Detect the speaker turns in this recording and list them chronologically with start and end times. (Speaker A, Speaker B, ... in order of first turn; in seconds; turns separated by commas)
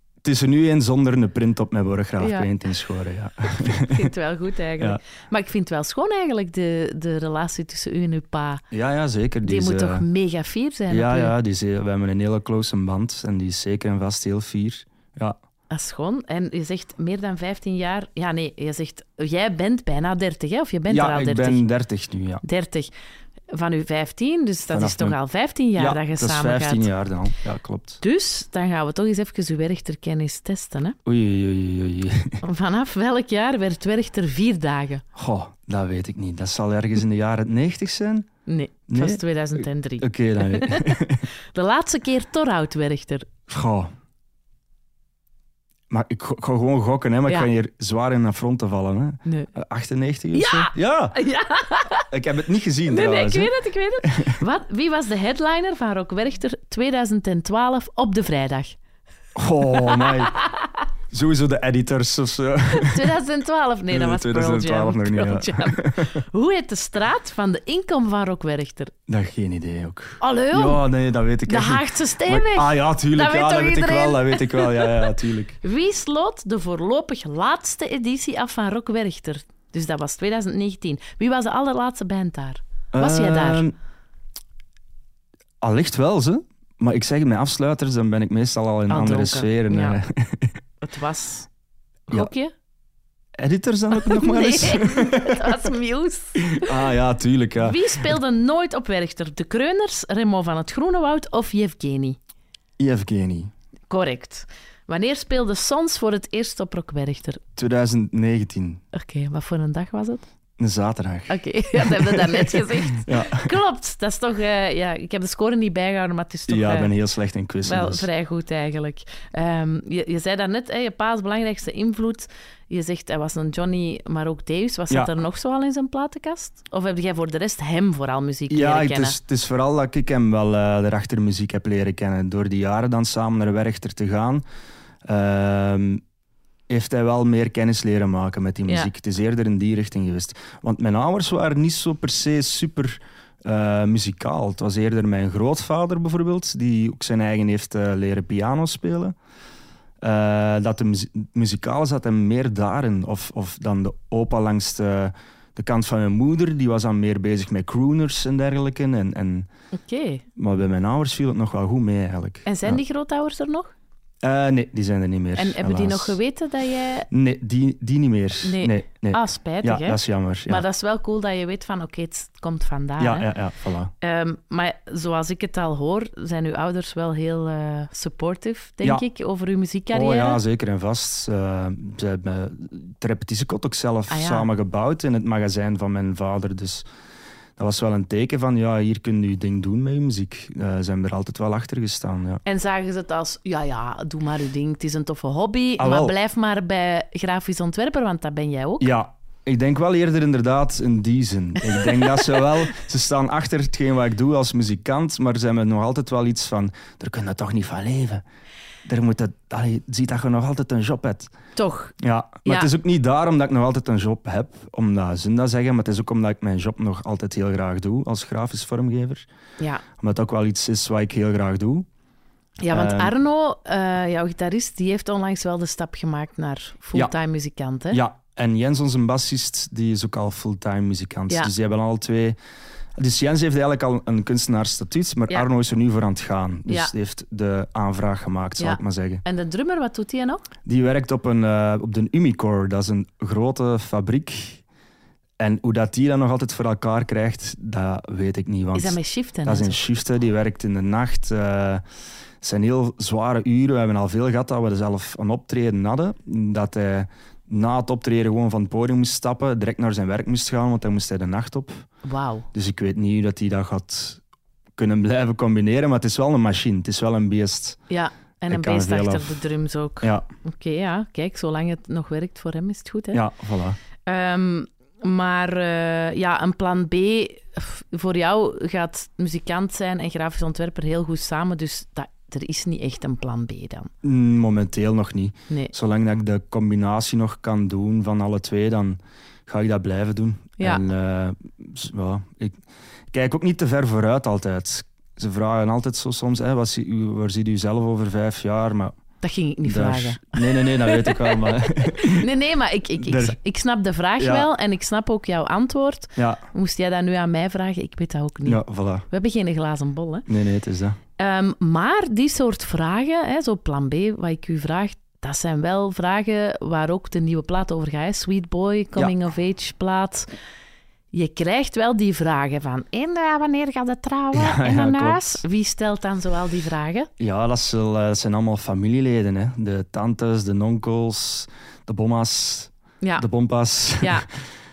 Speaker A: 0.2-4.1, Speaker B: 2.2-2.5, Speaker B: 3.6-8.6, Speaker A: 8.7-10.0, Speaker B: 9.4-11.3, Speaker A: 10.9-15.4, Speaker B: 15.7-21.6, Speaker A: 20.9-22.4, Speaker B: 22.4-22.9, Speaker B: 23.5-26.9, Speaker A: 24.7-25.2, Speaker A: 25.8-28.0, Speaker B: 28.0-31.0, Speaker A: 31.1-32.4, Speaker B: 32.4-35.0, Speaker A: 35.1-38.3, Speaker B: 38.5-43.3, Speaker A: 38.9-41.2, Speaker A: 43.5-43.9, Speaker A: 45.9-51.2, Speaker B: 49.2-49.5, Speaker B: 50.3-52.1, Speaker A: 52.1-53.5, Speaker B: 52.9-58.8, Speaker A: 54.0-54.4, Speaker A: 59.4-60.4, Speaker B: 59.8-60.7, Speaker A: 61.1-63.1, Speaker B: 62.7-68.9, Speaker A: 63.9-66.2, Speaker A: 69.1-75.6, Speaker B: 70.2-70.8, Speaker B: 71.5-83.7, Speaker A: 82.9-83.7, Speaker A: 85.6-90.5, Speaker B: 88.9-90.0, Speaker B: 90.8-91.5, Speaker B: 92.1-92.5, Speaker A: 93.4-95.6, Speaker B: 93.9-96.7, Speaker A: 96.5-98.2, Speaker B: 97.6-102.2, Speaker A: 102.8-103.5, Speaker B: 103.9-107.4, Speaker A: 107.5-108.8, Speaker B: 108.9-110.2, Speaker A: 110.6-113.5, Speaker B: 111.3-116.9, Speaker A: 116.5-118.1, Speaker B: 117.6-129.2, Speaker A: 128.5-134.4, Speaker A: 135.1-136.0, Speaker A: 136.7-149.1, Speaker A: 150.0-159.5, Speaker B: 159.7-160.2, Speaker A: 160.3-162.8, Speaker B: 162.4-163.7, Speaker A: 164.2-166.2, Speaker B: 165.3-167.1, Speaker A: 167.1-170.6, Speaker B: 168.4-173.3, Speaker A: 173.0-173.9, Speaker B: 174.0-180.4, Speaker A: 179.9-186.8, Speaker B: 184.1-184.5, Speaker A: 187.6-192.4, Speaker B: 192.4-198.9, Speaker A: 195.8-196.1, Speaker A: 198.8-208.2, Speaker A: 208.8-211.3, Speaker B: 211.6-211.9, Speaker A: 212.0-219.2, Speaker B: 212.4-212.7, Speaker B: 219.6-219.8, Speaker A: 220.0-221.9, Speaker B: 222.6-228.0, Speaker A: 222.7-223.1, Speaker A: 227.9-232.4, Speaker A: 233.0-239.2, Speaker B: 236.7-236.9, Speaker B: 238.6-240.4, Speaker A: 240.6-244.6, Speaker A: 245.4-251.8, Speaker B: 248.7-249.8, Speaker A: 252.4-261.8, Speaker B: 262.0-262.5, Speaker A: 262.5-264.2, Speaker A: 264.8-267.8, Speaker B: 267.9-273.2, Speaker A: 268.5-269.4, Speaker A: 273.1-273.8, Speaker B: 274.1-283.9, Speaker A: 284.0-292.6, Speaker B: 290.6-290.8, Speaker A: 293.1-298.9, Speaker B: 299.2-310.2, Speaker A: 299.6-302.3, Speaker A: 303.0-303.4, Speaker A: 304.2-304.5, Speaker A: 306.2-306.4, Speaker A: 308.4-309.1, Speaker A: 310.3-311.0, Speaker B: 311.2-320.3, Speaker B: 321.1-327.1, Speaker A: 324.3-325.4, Speaker A: 327.2-334.2, Speaker B: 333.0-333.3, Speaker B: 334.0-334.3